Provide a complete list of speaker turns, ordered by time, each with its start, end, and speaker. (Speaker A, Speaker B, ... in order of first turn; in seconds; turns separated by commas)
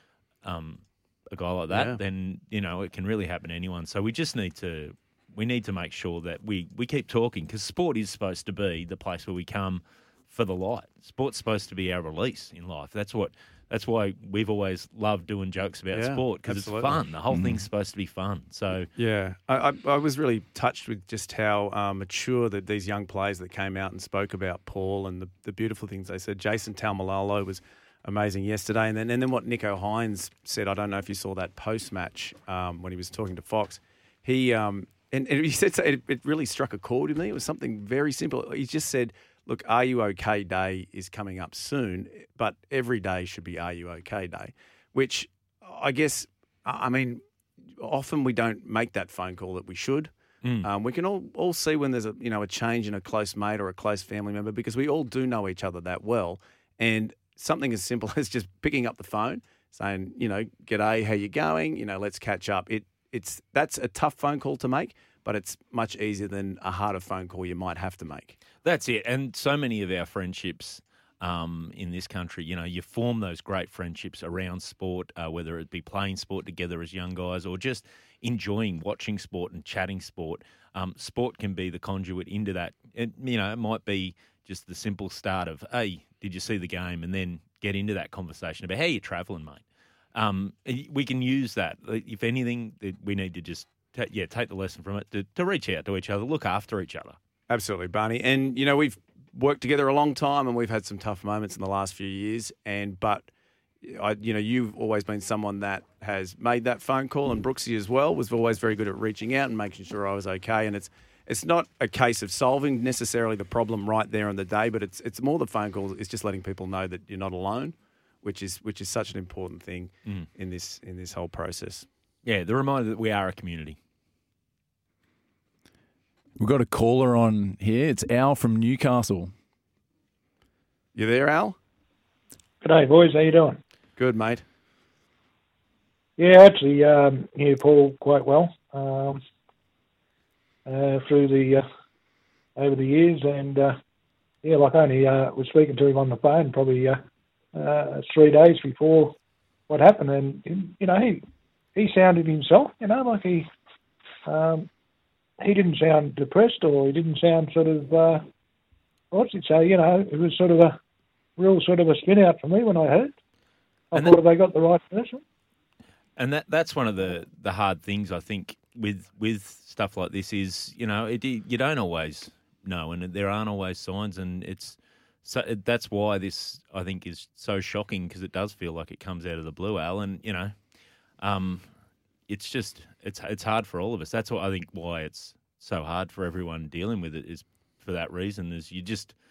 Speaker A: 0.4-18.9, Speaker B: 1.7-2.0, Speaker B: 15.9-17.0, Speaker C: 17.3-17.6, Speaker B: 18.9-47.2, Speaker B: 47.8-50.1, Speaker B: 50.6-68.4, Speaker A: 68.6-89.6, Speaker A: 90.1-97.2, Speaker B: 97.5-103.3, Speaker B: 103.8-121.9, Speaker A: 122.2-123.8, Speaker C: 126.4-129.3, Speaker B: 130.9-131.6, Speaker D: 132.6-133.6, Speaker B: 133.9-134.4, Speaker D: 136.2-139.2, Speaker D: 140.7-141.6, Speaker D: 142.6-143.7, Speaker D: 144.4-147.0, Speaker D: 147.5-149.1, Speaker D: 149.7-151.2, Speaker D: 151.8-153.5, Speaker D: 154.3-154.7, Speaker D: 155.4-158.2, Speaker D: 159.1-160.8, Speaker D: 161.4-163.1, Speaker D: 163.9-165.2, Speaker A: 163.9-164.2, Speaker A: 166.2-180.5, Speaker A: 181.2-181.7, Speaker A: 182.3-189.1